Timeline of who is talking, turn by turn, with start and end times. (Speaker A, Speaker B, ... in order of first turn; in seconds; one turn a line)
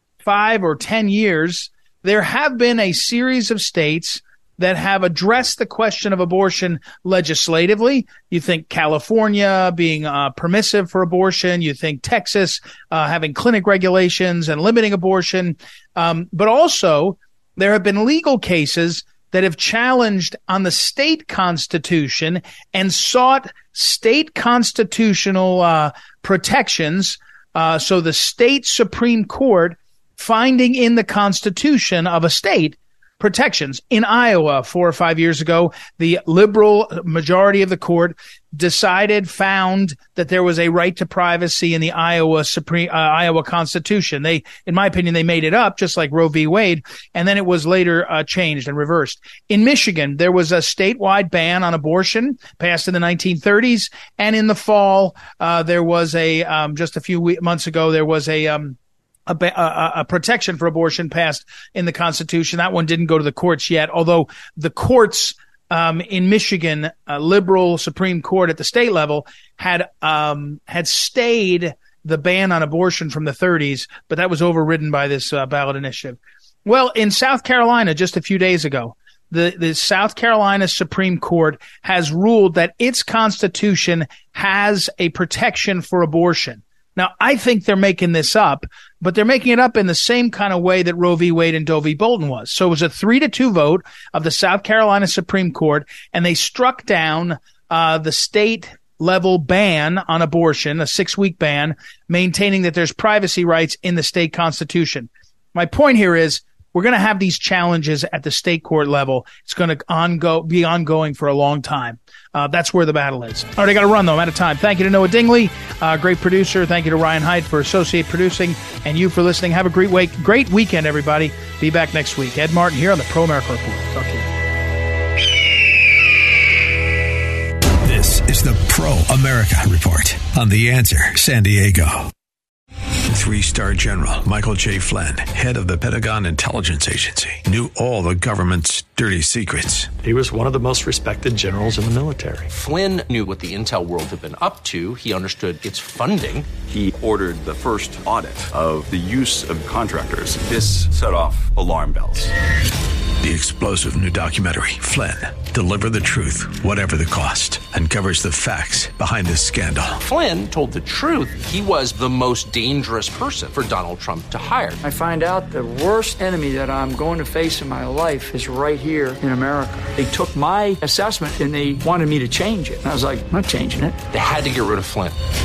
Speaker A: 0.2-124.2
Speaker B: 127.8-132.1
Speaker B: 133.1-140.0
Speaker C: 140.0-142.5
Speaker D: 142.5-146.5
Speaker E: 146.7-152.3
Speaker B: 153.2-160.0
Speaker D: 160.0-164.8
Speaker F: 164.8-174.0
Speaker D: 174.1-175.2